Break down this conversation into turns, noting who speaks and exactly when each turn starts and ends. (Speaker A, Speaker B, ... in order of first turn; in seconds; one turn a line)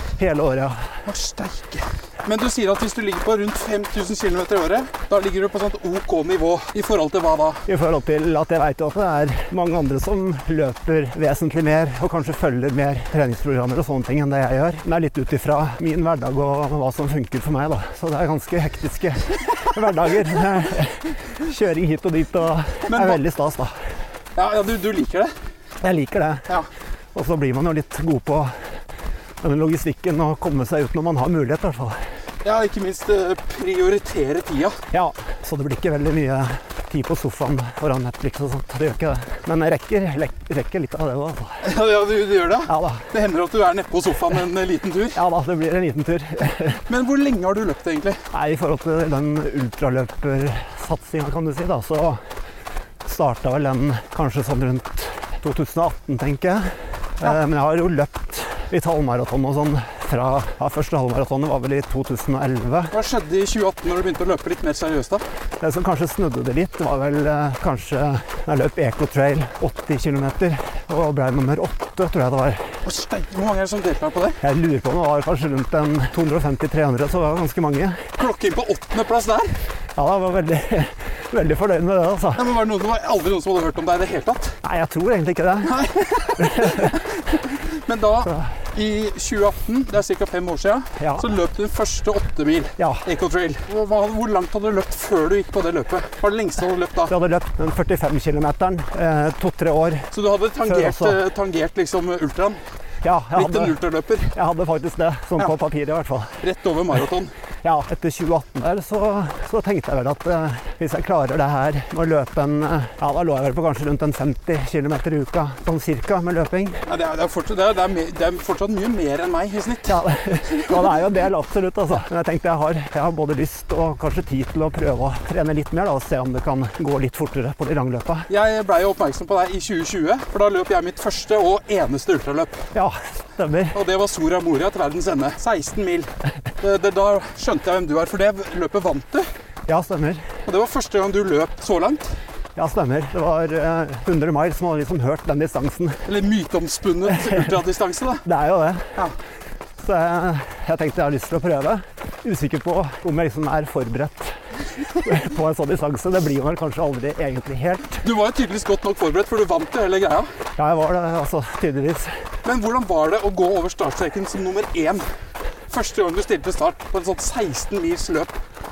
Speaker A: 0.2-0.9
Speaker B: 1.1-7.6
Speaker A: 7.7-23.8
Speaker B: 22.9-23.2
Speaker B: 24.4-25.3
Speaker A: 25.8-26.5
Speaker A: 27.1-28.5
Speaker A: 29.4-32.0
Speaker B: 32.4-34.8
Speaker A: 34.9-41.6
Speaker B: 41.6-45.2
Speaker A: 42.7-43.1
Speaker A: 45.1-46.8
Speaker B: 46.9-48.2
Speaker A: 48.3-52.2
Speaker A: 53.0-62.9
Speaker B: 62.9-65.2
Speaker A: 65.6-72.7
Speaker B: 72.8-74.4
Speaker A: 74.4-78.0
Speaker B: 78.2-79.6
Speaker A: 80.0-82.5
Speaker B: 82.3-84.6
Speaker A: 84.6-85.8
Speaker B: 85.6-97.1
Speaker A: 86.4-87.0
Speaker A: 88.2-88.5
Speaker A: 91.0-91.3
Speaker A: 92.8-93.0
Speaker A: 97.1-100.1
Speaker B: 100.1-102.6
Speaker A: 100.6-101.2
Speaker A: 103.0-103.8
Speaker B: 103.3-104.3
Speaker A: 104.3-106.4
Speaker B: 106.4-107.3
Speaker A: 107.6-116.8
Speaker B: 116.9-120.0
Speaker A: 119.9-128.3
Speaker B: 128.3-132.7
Speaker A: 132.7-133.8
Speaker B: 133.7-139.3
Speaker A: 139.7-140.2
Speaker B: 140.5-142.1
Speaker A: 142.6-146.0
Speaker B: 146.1-148.2
Speaker A: 147.2-147.5
Speaker A: 148.2-148.9
Speaker A: 149.8-154.3
Speaker A: 155.0-158.0
Speaker B: 158.0-160.3
Speaker A: 160.6-162.1
Speaker B: 162.4-165.1
Speaker B: 165.7-168.4